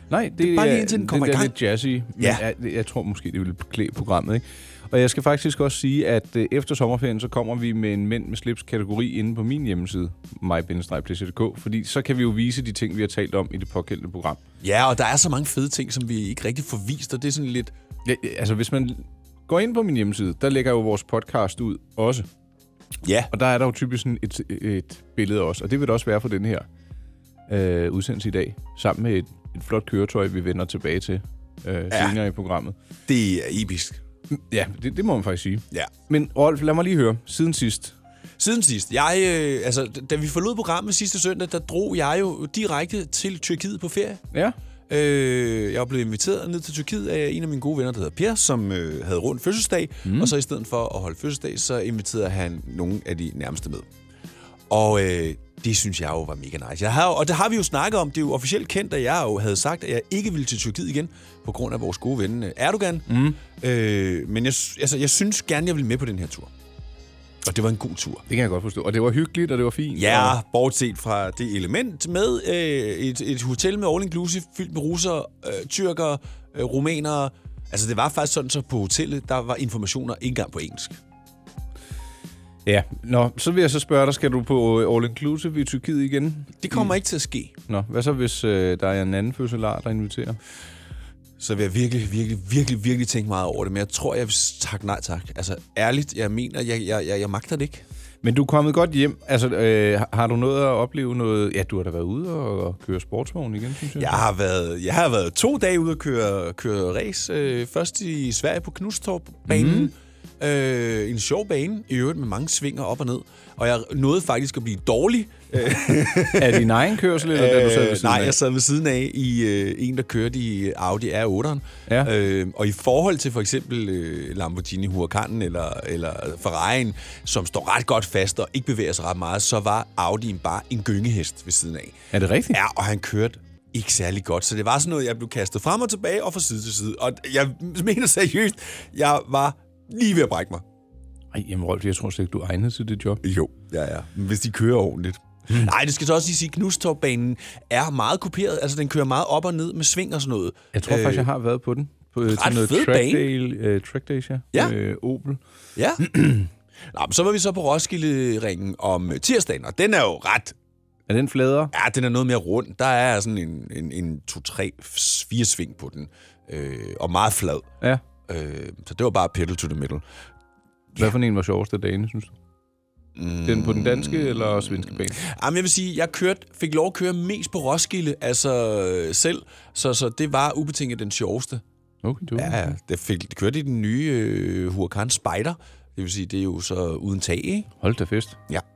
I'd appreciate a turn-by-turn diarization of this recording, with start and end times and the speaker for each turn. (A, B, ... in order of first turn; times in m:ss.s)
0:00.1-0:14.4 A
0:00.4-0:01.6 B
0:14.6-0:17.7 B
0:18.0-0:22.3 A
0:23.0-0:23.3 B
0:23.3-0:26.7 A
0:27.5-0:32.8 A
0:31.9-0:32.2 B
0:33.1-0:34.0 B
0:34.3-0:38.0 A
0:38.4-0:44.2 B
0:44.9-0:53.9 B
0:50.0-0:50.3 A
0:54.7-1:06.5 B
1:03.1-1:03.4 A
1:07.4-1:08.3 B
1:08.3-1:10.4 A
1:10.0-1:21.0 B
1:22.7-1:27.0 A
1:26.6-1:27.6 B
1:27.7-1:30.4 A
1:31.4-1:37.8 B
1:38.2-1:44.2 A
1:44.0-2:12.0 B
1:49.5-1:49.9 A
1:56.4-1:58.4 A
2:12.1-2:12.6 A
2:12.5-2:20.6 B
2:21.3-2:23.2 A
2:23.2-2:31.3 B
2:30.7-2:35.4 A
2:32.2-2:33.3 B
2:35.8-2:36.1 B
2:36.0-2:36.5 A
2:36.8-2:40.6 B
2:41.1-2:41.7 A
2:41.7-2:47.7 B
2:48.3-2:50.0 B
2:51.0-2:52.4 A
2:53.2-3:01.6 B
2:53.4-2:55.2 A
3:02.0-3:02.7 A
3:02.4-3:07.7 B
3:07.8-3:08.4 A